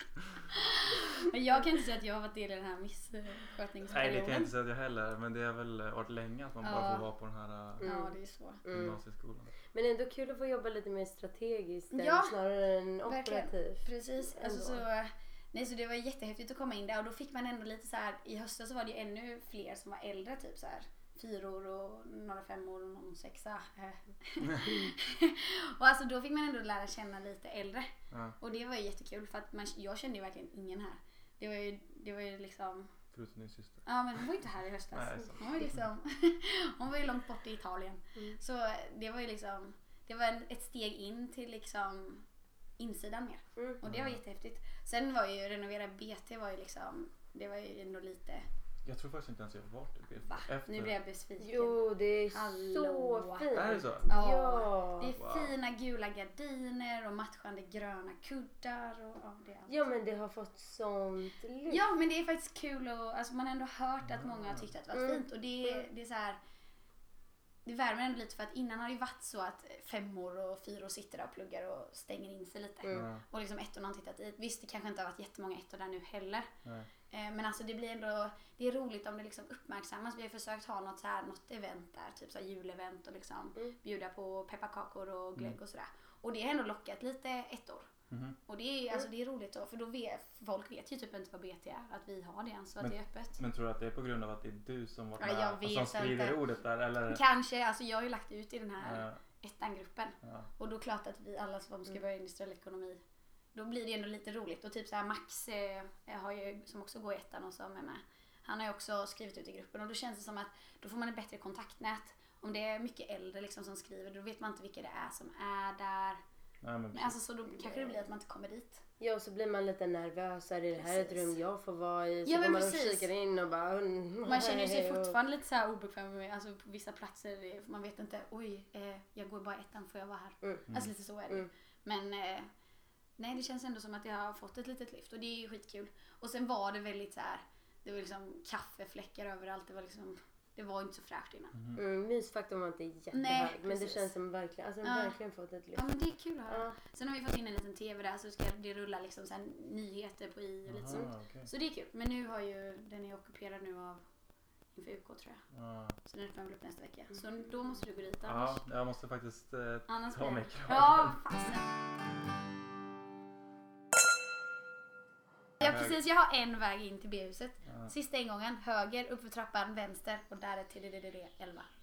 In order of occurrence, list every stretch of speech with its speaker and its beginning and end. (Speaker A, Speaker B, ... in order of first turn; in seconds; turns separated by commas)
Speaker A: 0.5-4.5, Speaker B: 3.9-7.9, Speaker A: 6.6-7.0, Speaker A: 7.8-8.6, Speaker C: 7.8-9.0, Speaker B: 8.7-9.5, Speaker C: 9.7-14.8, Speaker A: 11.9-12.3, Speaker A: 13.1-32.9, Speaker B: 33.1-33.8, Speaker A: 33.9-42.2, Speaker B: 34.9-35.8, Speaker A: 42.8-48.5, Speaker C: 43.5-43.8, Speaker B: 43.8-44.2, Speaker B: 48.8-51.0, Speaker A: 50.2-59.8, Speaker C: 51.4-55.1, Speaker B: 53.5-54.1, Speaker B: 55.2-55.5, Speaker C: 59.7-61.8, Speaker A: 61.7-66.4, Speaker B: 64.1-64.6, Speaker C: 64.9-65.8, Speaker A: 67.6-76.5, Speaker B: 72.9-73.2, Speaker A: 77.1-87.9, Speaker B: 88.1-88.4, Speaker A: 88.5-93.4, Speaker B: 92.8-97.2, Speaker A: 95.2-96.4, Speaker A: 97.1-103.0, Speaker B: 98.8-99.2, Speaker B: 100.2-100.5, Speaker A: 103.5-116.2, Speaker B: 116.6-117.2, Speaker A: 116.9-118.8, Speaker C: 117.6-117.9, Speaker C: 119.0-125.1, Speaker A: 120.8-121.3, Speaker A: 122.2-123.1, Speaker A: 124.2-132.5, Speaker A: 133.2-141.5, Speaker B: 141.5-141.8, Speaker C: 141.8-145.8, Speaker A: 143.1-144.1, Speaker A: 144.8-145.1, Speaker A: 145.7-154.0, Speaker C: 146.5-146.8, Speaker B: 150.7-151.5, Speaker A: 154.7-155.4, Speaker B: 155.5-156.0, Speaker A: 156.0-158.6, Speaker B: 158.2-161.2, Speaker A: 159.9-161.6, Speaker A: 165.6-171.7, Speaker B: 165.6-165.9